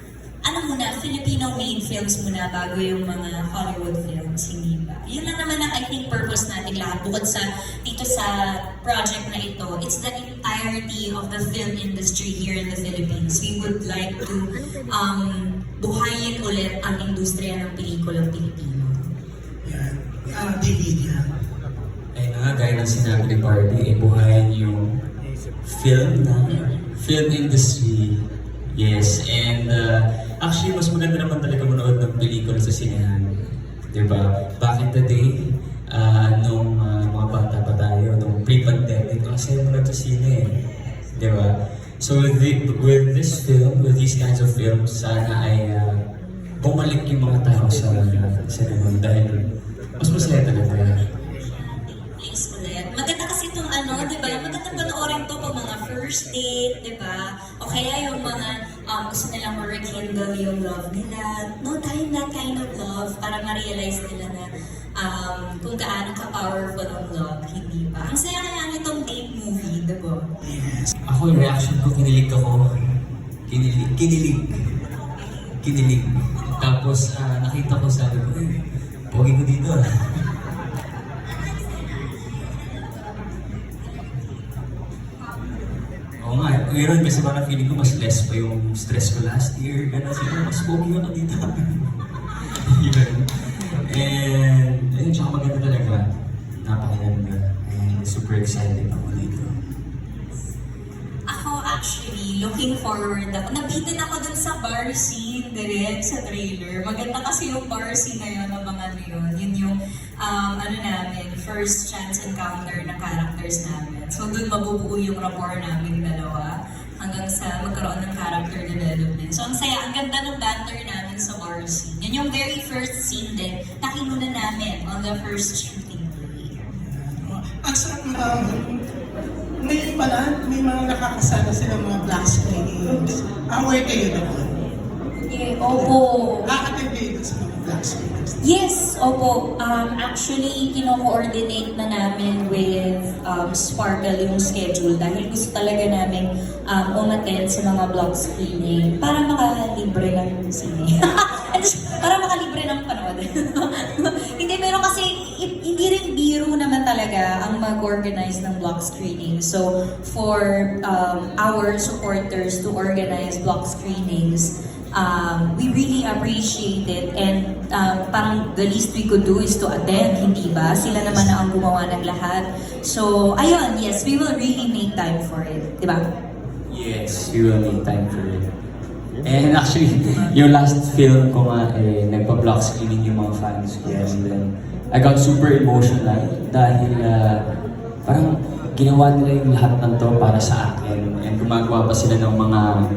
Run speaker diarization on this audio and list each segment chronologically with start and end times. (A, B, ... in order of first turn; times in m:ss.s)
0:00.4-0:19.1 A
0:19.6-0:21.3 B
0:22.1-0:25.0 C
0:25.6-0:40.6 C
0:41.1-0:46.0 C
0:46.6-0:49.4 C
0:50.0-0:51.0 C
0:51.2-1:10.3 A
1:10.4-1:10.9 B
1:11.0-1:12.9 C
1:13.5-1:14.7 C
1:15.1-1:15.5 A
1:15.6-1:20.2 C
1:21.3-1:24.6 A
1:25.2-1:25.6 A
1:26.2-1:31.9 C
1:32.6-1:36.1 C
1:36.6-1:39.6 C
1:41.3-2:06.7 A
2:06.7-2:08.8 B
2:09.6-2:14.5 B
2:15.2-2:16.6 A
2:15.7-2:18.4 B
2:18.4-2:56.0 A
2:56.7-2:58.4 C
2:59.2-3:07.4 C
3:08.0-3:12.6 C